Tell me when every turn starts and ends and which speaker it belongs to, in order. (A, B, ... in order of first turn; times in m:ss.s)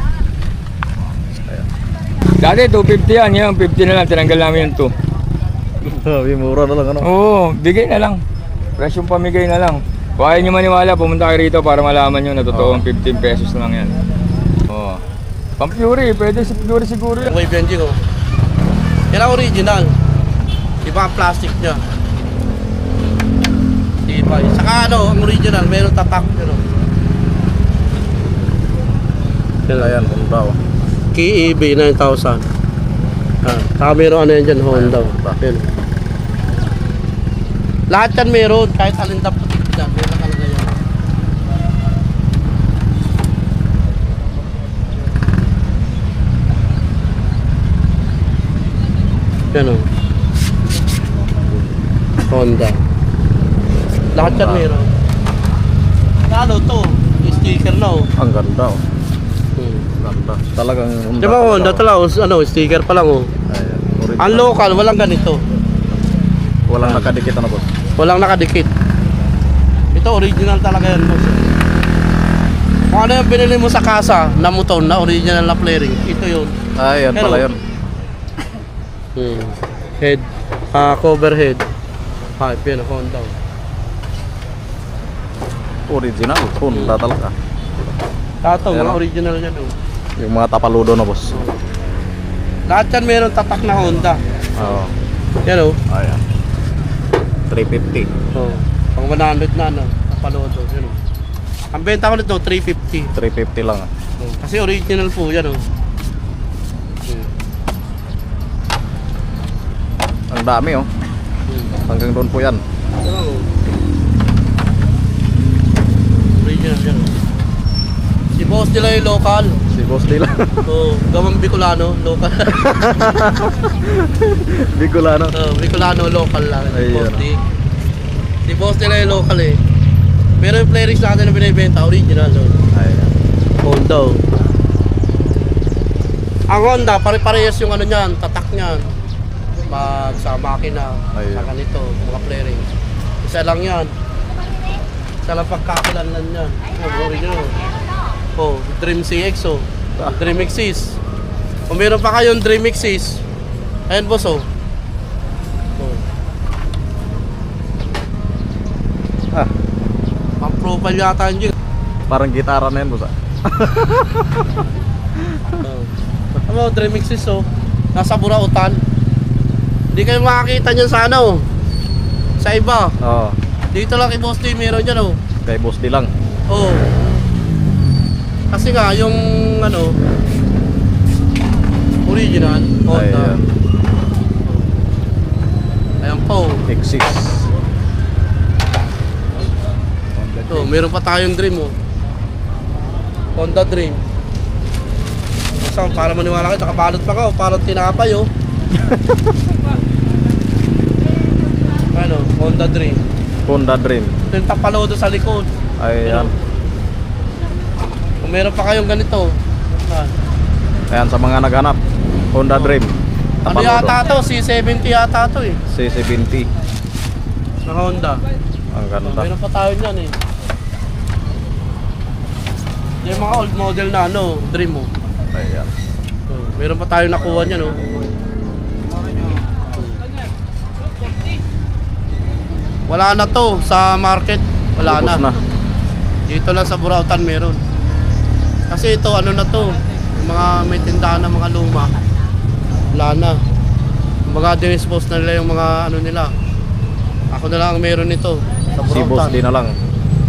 0:01.3-0:01.7 A
0:02.4-0:04.9 B
0:05.8-0:07.1 A
0:07.0-0:08.2 B
0:08.8-0:14.0 B
0:12.5-0:12.8 A
0:14.7-0:15.0 A
0:15.6-0:17.3 B
0:17.3-0:18.0 C
0:19.1-0:19.9 C
0:20.8-0:21.8 C
0:24.1-0:26.6 C
0:29.7-0:30.0 C
0:29.8-0:30.6 A
0:31.1-0:32.4 C
0:33.4-0:35.7 C
0:34.7-0:35.4 A
0:37.9-0:40.8 C
0:49.5-0:49.9 C
0:52.3-0:52.8 C
0:54.1-0:54.9 C
0:54.2-0:54.7 A
0:56.3-0:58.1 C
0:58.2-0:58.8 A
0:59.6-0:59.9 C
1:00.0-1:01.8 A
1:01.2-1:03.3 C
1:03.5-1:04.8 A
1:04.2-1:05.4 C
1:06.7-1:07.7 A
1:06.8-1:07.1 C
1:08.0-1:08.7 C
1:09.9-1:11.6 C
1:12.9-1:16.5 C
1:16.8-1:17.6 A
1:17.1-1:17.4 C
1:19.2-1:21.6 C
1:22.4-1:23.4 C
1:25.9-1:27.3 A
1:26.7-1:27.0 C
1:28.4-1:29.7 C
1:28.7-1:29.0 A
1:30.2-1:31.4 A
1:31.3-1:31.6 C
1:32.7-1:34.2 C
1:34.6-1:34.9 A
1:35.4-1:35.8 C
1:35.9-1:36.2 A
1:37.5-1:38.1 A
1:38.3-1:41.0 C
1:41.7-1:43.1 C
1:43.1-1:43.9 A
1:44.2-1:45.6 C
1:50.3-1:50.9 A
1:51.5-1:51.8 C
1:51.8-1:52.6 A
1:53.0-1:53.5 C
1:56.3-1:57.1 C
1:58.4-1:59.6 C
1:59.7-2:00.6 A
2:00.6-2:02.6 C
2:02.5-2:05.3 A
2:05.3-2:07.4 C
2:06.7-2:07.2 A
2:08.5-2:09.6 C
2:10.4-2:12.6 C
2:12.7-2:13.1 A
2:13.6-2:14.2 C
2:16.5-2:18.9 C
2:19.7-2:22.7 C
2:21.1-2:21.5 A
2:23.2-2:23.9 C
2:25.2-2:27.6 C
2:28.4-2:30.9 C
2:31.7-2:33.2 C
2:33.9-2:34.4 C
2:35.8-2:36.0 C
2:40.4-2:41.5 C
2:42.1-2:44.5 A
2:45.2-2:45.5 A
2:45.6-2:48.8 C
2:49.9-2:51.4 C
2:52.4-2:52.9 C
2:53.0-2:53.4 A
2:53.7-2:55.2 C
2:55.4-2:56.1 A
2:56.5-2:56.9 C
2:58.5-3:00.0 C
3:02.0-3:03.4 C
3:02.9-3:03.5 A
3:06.0-3:06.6 C
3:06.7-3:07.5 A
3:10.4-3:10.7 A
3:10.5-3:11.7 C
3:13.4-3:14.0 C
3:15.5-3:18.3 C
3:18.7-3:19.3 A
3:21.9-3:23.0 C
3:23.4-3:24.2 A
3:24.3-3:25.5 C
3:25.8-3:26.3 A
3:26.0-3:26.3 C
3:28.2-3:30.1 C
3:30.9-3:31.8 A
3:32.3-3:32.9 A
3:33.4-3:33.9 A
3:33.5-3:35.6 C
3:35.7-3:36.5 A
3:37.6-3:38.2 C
3:38.7-3:39.3 A
3:39.0-3:40.1 C
3:43.0-3:44.9 C
3:45.3-3:45.7 A
3:46.3-3:47.8 C
3:49.7-3:50.0 C
3:52.9-3:55.3 C
3:54.8-3:55.4 A
3:56.3-3:57.6 C
3:58.7-4:01.9 C
4:02.9-4:03.4 C
4:04.3-4:06.3 C
4:07.3-4:09.4 C
4:08.8-4:09.7 A